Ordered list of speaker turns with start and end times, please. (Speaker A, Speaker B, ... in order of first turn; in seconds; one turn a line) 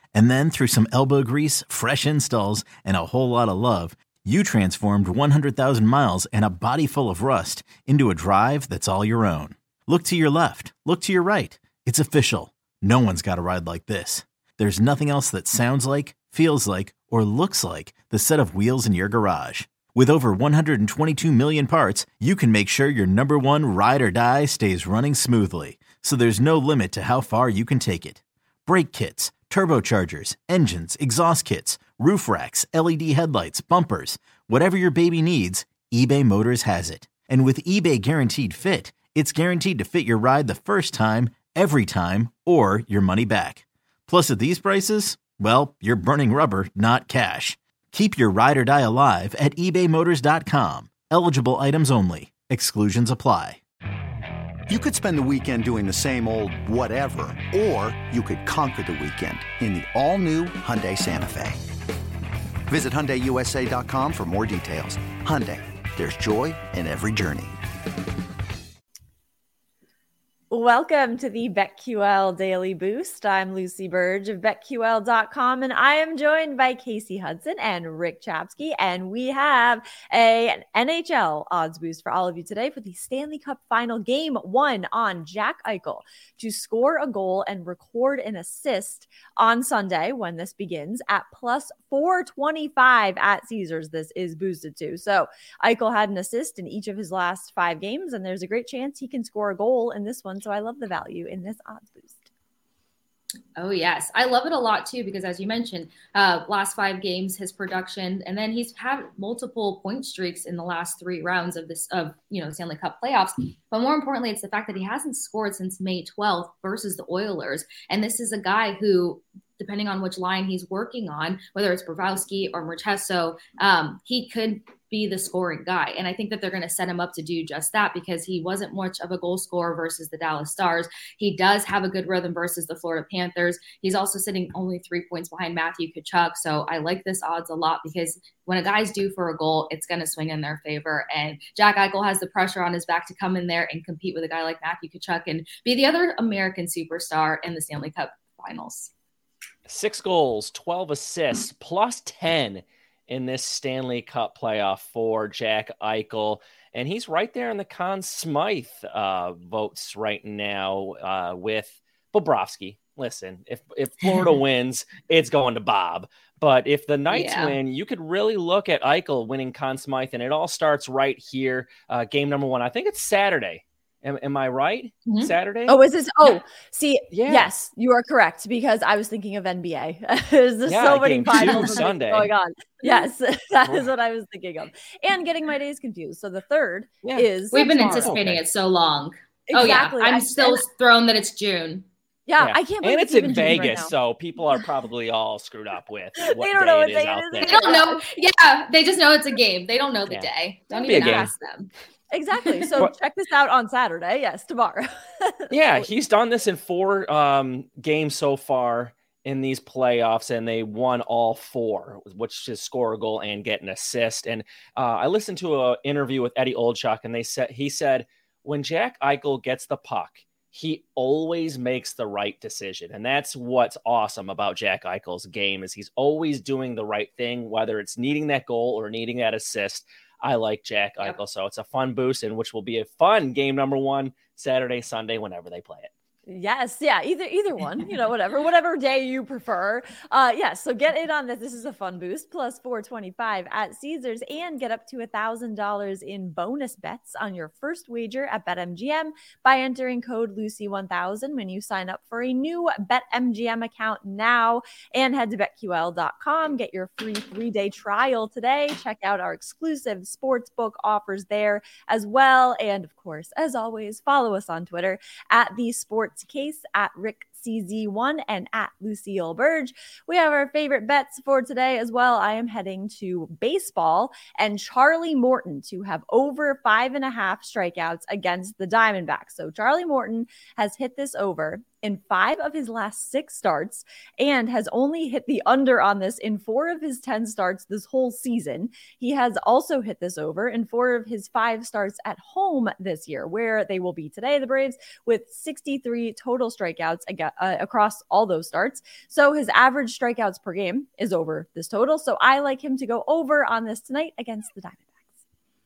Speaker A: 0.1-53.6
Speaker B: 54.7-61.6
Speaker B: 62.7-67.6
Speaker C: 70.5-102.3
Speaker D: 103.5-148.9
Speaker E: 149.7-175.7
Speaker D: 167.1-167.6
Speaker D: 175.0-175.3
Speaker C: 175.7-188.2
Speaker E: 177.1-177.5
Speaker E: 180.7-182.3
Speaker D: 181.4-181.8
Speaker E: 187.0-187.3
Speaker D: 187.5-191.8
Speaker E: 187.9-188.4
Speaker C: 189.5-190.7
Speaker C: 192.2-193.9
Speaker E: 192.4-197.6
Speaker C: 196.2-198.0
Speaker D: 197.4-201.7
Speaker E: 200.1-201.3
Speaker C: 200.7-201.3
Speaker C: 202.1-205.9
Speaker E: 205.5-235.9
Speaker C: 236.3-305.0